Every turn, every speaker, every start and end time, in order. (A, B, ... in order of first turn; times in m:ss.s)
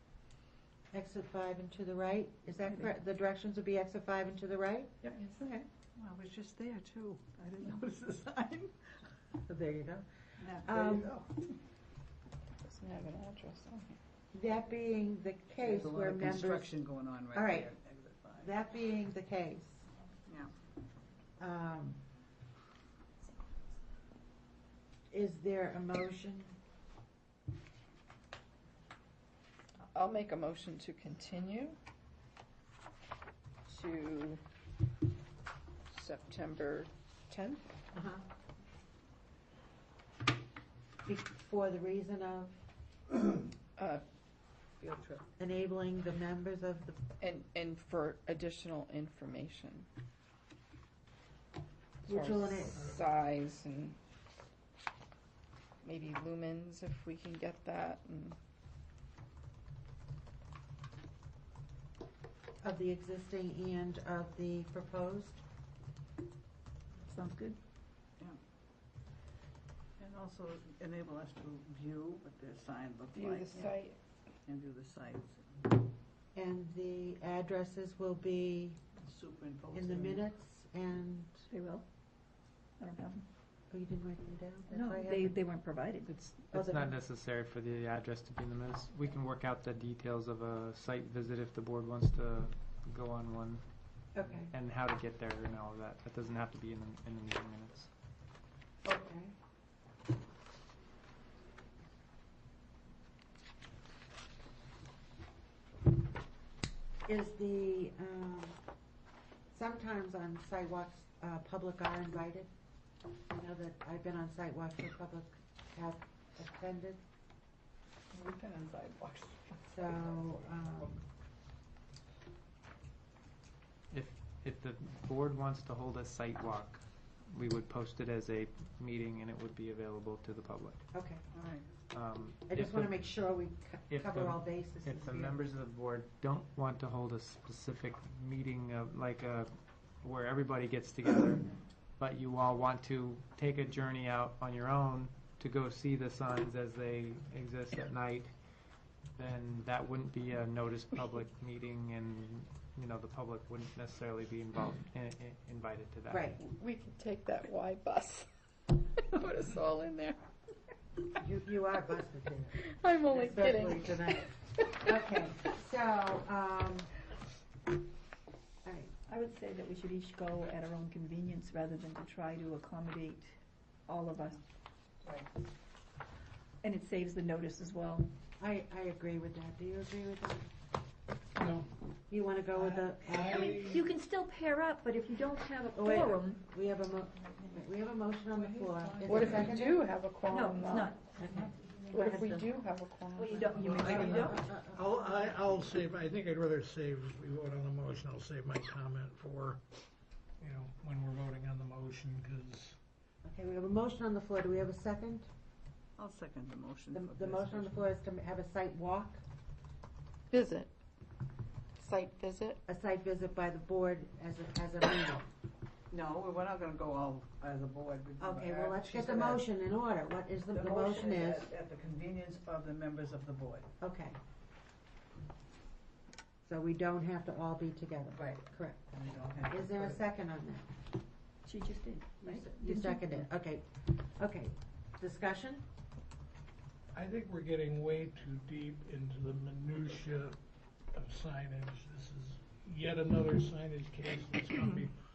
0:00.9-0:05.5 A
0:02.6-0:02.9 B
0:05.2-0:08.7 C
0:09.5-0:10.1 A
0:10.4-0:11.5 C
0:10.6-0:11.1 A
0:12.6-0:14.0 D
0:14.3-0:16.7 A
0:15.6-0:18.5 C
0:17.3-0:17.7 A
0:18.4-0:19.8 A
0:20.3-0:20.5 C
0:21.4-0:22.0 A
0:25.1-0:26.6 A
0:29.9-0:31.8 D
0:33.7-0:34.4 D
0:35.9-0:37.6 D
0:37.9-0:38.2 A
0:41.1-0:42.6 A
0:43.8-0:44.0 D
0:45.4-0:47.0 A
0:47.2-0:49.9 D
0:52.0-0:52.8 A
0:52.1-0:54.0 D
0:52.8-0:53.0 E
0:55.8-0:58.4 D
1:02.6-1:05.4 A
1:07.1-1:07.6 B
1:10.0-1:13.8 C
1:13.2-1:14.0 D
1:14.5-1:15.6 C
1:16.4-1:18.8 A
1:19.0-1:20.2 C
1:19.7-1:21.5 A
1:21.5-1:21.9 B
1:22.8-1:23.2 B
1:23.7-1:25.3 A
1:24.7-1:26.1 B
1:26.1-1:37.9 F
1:26.5-1:26.9 A
1:34.2-1:34.5 A
1:38.9-1:39.3 A
1:47.1-1:48.6 A
1:49.5-1:52.5 A
1:53.3-1:57.0 A
1:58.1-2:01.0 C
1:59.7-2:01.0 A
2:03.9-2:10.8 F
2:10.9-2:11.2 A
2:11.3-2:11.7 C
2:11.9-2:13.2 F
2:12.5-2:15.4 A
2:13.9-2:28.3 F
2:29.2-2:36.3 F
2:36.1-2:36.4 A
2:36.4-2:38.3 D
2:39.0-2:40.2 D
2:41.2-2:42.5 A
2:42.6-2:44.3 D
2:43.1-2:46.9 A
2:48.6-2:48.9 A
2:49.1-2:53.3 B
2:53.9-2:54.4 B
2:55.0-2:55.3 C
2:56.6-2:58.1 B
2:58.4-3:00.5 A
3:01.4-3:01.7 E
3:02.1-3:03.8 A
3:02.5-3:03.9 E
3:03.3-3:06.4 B
3:05.7-3:09.7 A
3:08.3-3:09.6 C
3:09.0-3:11.0 D
3:10.3-3:11.5 B
3:11.2-3:12.4 A
3:11.9-3:14.3 D
3:13.1-3:14.4 B
3:13.6-3:19.6 E
3:13.6-3:14.9 A
3:20.4-3:22.8 E
3:23.2-3:25.3 A
3:26.0-3:27.8 C
3:26.9-3:29.2 A
3:30.3-3:30.7 D
3:31.8-3:32.6 D
3:32.7-3:35.3 A
3:35.9-3:39.5 C
3:38.2-3:41.5 A
3:40.5-3:43.7 C
3:43.8-3:44.2 A
3:46.4-3:48.8 A
3:48.2-3:50.0 C
3:49.5-3:50.7 A
3:51.4-3:53.3 B
3:52.2-3:55.6 A
3:56.9-4:00.4 E
4:00.9-4:05.0 E